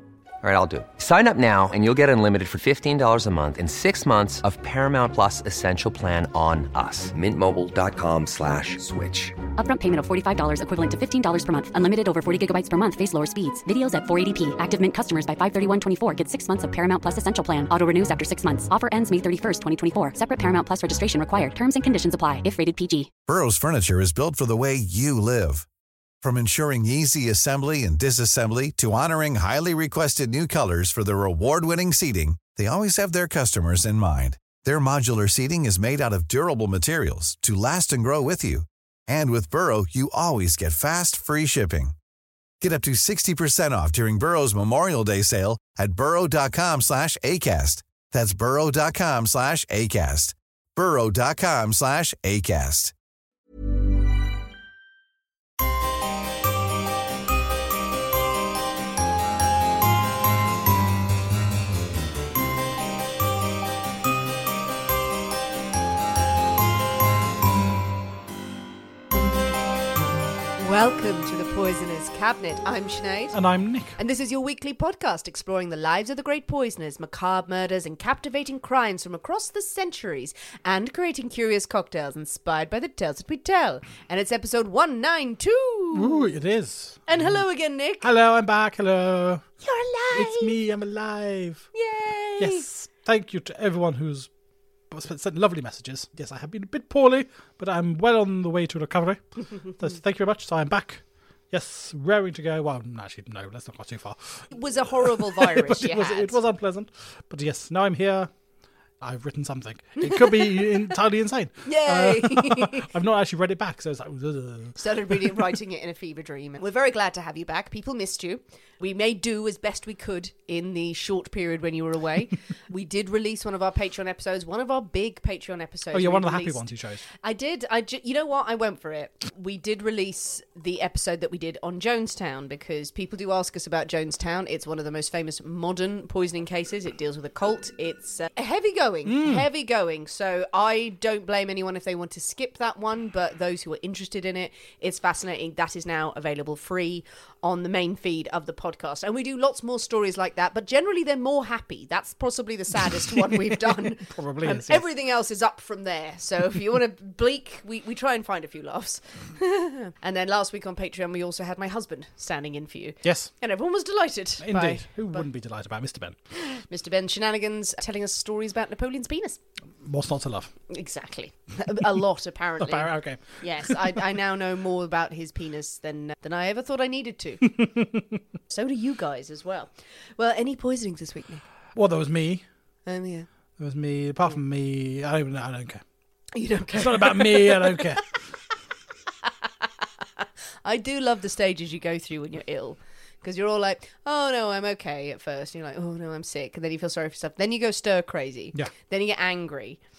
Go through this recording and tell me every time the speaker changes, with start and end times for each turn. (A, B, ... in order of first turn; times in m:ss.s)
0:00.4-0:09.4 A
0:09.6-0:23.1 B
0:23.3-0:25.7 C
0:26.2-0:41.9 C
0:42.6-0:52.9 C
1:10.6-1:13.4 D
1:13.3-1:14.0 E
1:14.0-1:26.3 D
1:25.9-1:27.4 E
1:27.1-1:28.1 D
1:28.0-1:29.4 E
1:29.6-1:30.6 D
1:30.1-1:31.7 E
1:31.7-1:32.7 D
1:32.4-1:34.3 E
1:34.9-1:48.3 E
1:44.5-1:46.4 D
1:49.0-1:55.4 E
1:50.0-1:51.0 D
1:51.6-1:52.9 D
1:54.8-2:45.2 D
2:05.9-2:07.0 E
2:19.0-2:19.4 E
2:33.5-2:34.8 E
2:43.0-2:43.3 E
2:44.4-2:46.2 E
2:46.3-2:49.4 D
2:49.8-2:50.5 E
2:50.7-2:57.6 D
2:52.6-2:54.1 E
2:57.6-2:58.0 E
2:58.5-3:01.4 D
3:01.7-3:02.4 E
3:02.8-3:03.3 D
3:03.6-3:05.8 E
3:06.3-3:08.0 D
3:06.7-3:08.0 E
3:10.2-3:19.8 D